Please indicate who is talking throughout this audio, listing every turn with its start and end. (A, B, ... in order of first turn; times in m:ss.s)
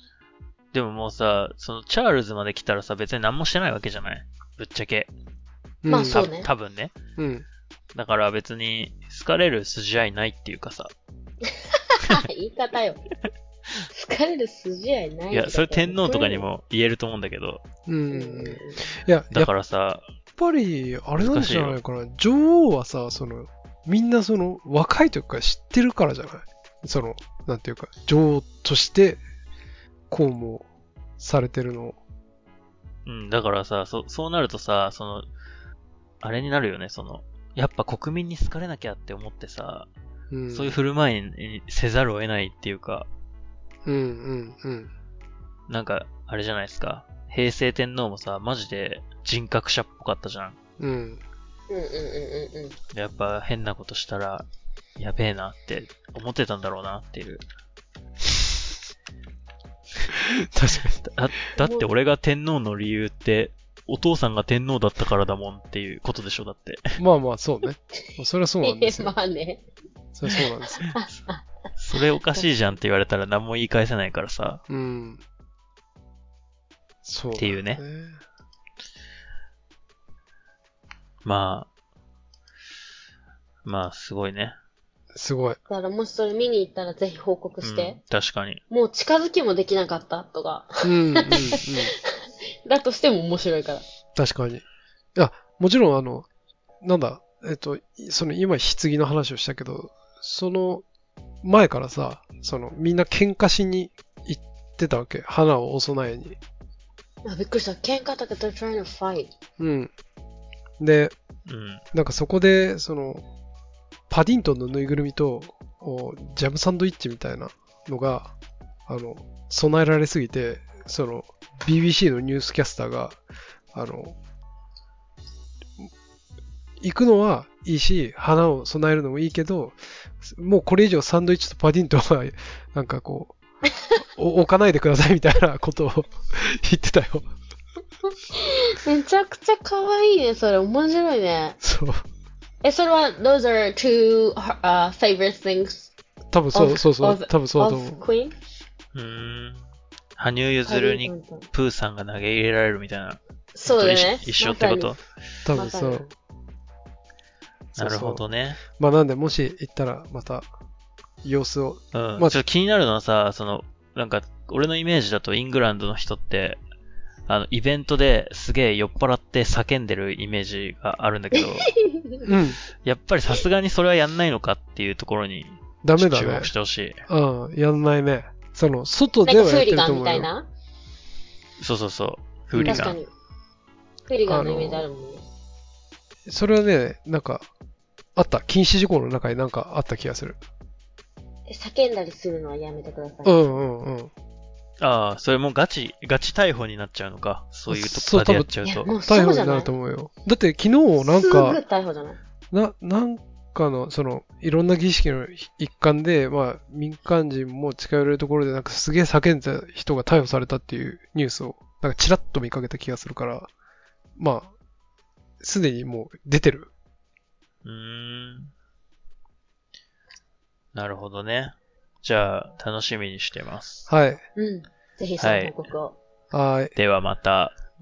0:00.7-0:05.1 A
0:05.8-0:06.2 B
0:05.9-0:06.5 C
0:06.0-0:06.9 A
0:07.2-0:07.4 B
0:08.0-0:10.9 A
0:11.5-0:13.0 C
0:13.9-0:16.4 C
0:15.3-0:17.6 A
0:17.9-0:19.5 B
0:18.1-0:18.9 C
0:19.3-0:20.0 A
0:20.4-0:29.2 B
0:21.2-0:21.8 A
0:30.1-0:30.7 B
0:31.2-0:32.0 B
0:33.1-0:35.3 A
0:36.2-0:39.9 A
0:40.3-0:40.7 B
0:40.5-0:43.1 A
0:43.9-0:44.9 B
0:45.7-0:50.6 A
0:50.8-0:51.2 B
0:51.7-0:52.7 C
0:52.9-0:54.4 A
0:55.0-0:57.4 A
1:00.1-1:01.1 B
1:01.0-1:07.0 A
1:01.6-1:01.9 C
1:07.0-1:09.1 B
1:08.6-1:09.6 C
1:10.1-1:10.9 B
1:10.3-1:11.4 C
1:11.8-1:14.6 A
1:14.7-1:15.2 B
1:17.0-1:18.2 B
1:17.4-1:17.8 A
1:21.2-1:21.7 A
1:23.6-1:24.6 A
1:25.1-1:25.6 B
1:25.7-1:28.0 C
1:27.6-1:28.6 A
1:28.7-1:33.8 C
1:30.8-1:31.9 B
1:34.2-1:34.6 B
1:35.2-1:36.3 B
1:36.8-1:40.8 B
1:41.4-1:46.4 B
1:47.2-1:49.3 C
1:49.6-1:49.9 B
1:50.8-1:51.1 B
1:51.5-1:51.8 A
1:51.9-1:53.2 B
1:54.1-1:58.3 B
1:58.9-2:03.2 B
2:03.7-2:04.2 B
2:06.8-2:13.4 B
2:14.1-2:17.3 B
2:18.3-2:21.6 C
2:21.6-2:22.0 B
2:22.6-2:25.9 C
2:26.3-2:28.0 B
2:26.5-2:28.3 C
2:28.9-2:29.6 A
2:30.2-2:35.0 A
2:30.7-2:31.4 C
2:33.6-2:34.9 C
2:35.4-2:36.0 B
2:35.5-2:36.1 C
2:37.7-2:40.5 B
2:37.8-2:38.6 A
2:41.2-2:42.4 B
2:41.9-2:46.6 A
2:47.3-2:51.7 A
2:51.4-2:52.3 C
2:52.2-2:52.6 B
2:52.8-2:57.0 A
2:55.8-2:56.5 B
2:57.1-3:00.3 B
2:59.2-3:00.5 C
3:01.6-3:03.0 A
3:02.6-3:02.9 B
3:02.6-3:03.1 C
3:04.1-3:05.2 C
3:04.3-3:04.9 B
3:06.3-3:07.5 B
3:08.1-3:10.4 B
3:11.5-3:13.5 C
3:13.2-3:14.1 B
3:14.8-3:18.9 A
3:17.7-3:18.5 B
3:18.6-3:19.7 C
3:19.0-3:21.6 B
3:21.0-3:22.2 C
3:22.5-3:33.5 B
3:34.2-3:34.5 B
3:35.4-3:36.7 B
3:37.6-3:38.5 A
3:40.7-3:43.9 A
3:43.9-3:44.2 B
3:44.4-3:46.0 C
3:45.2-3:45.7 A
3:46.3-3:46.7 B
3:46.8-3:47.6 A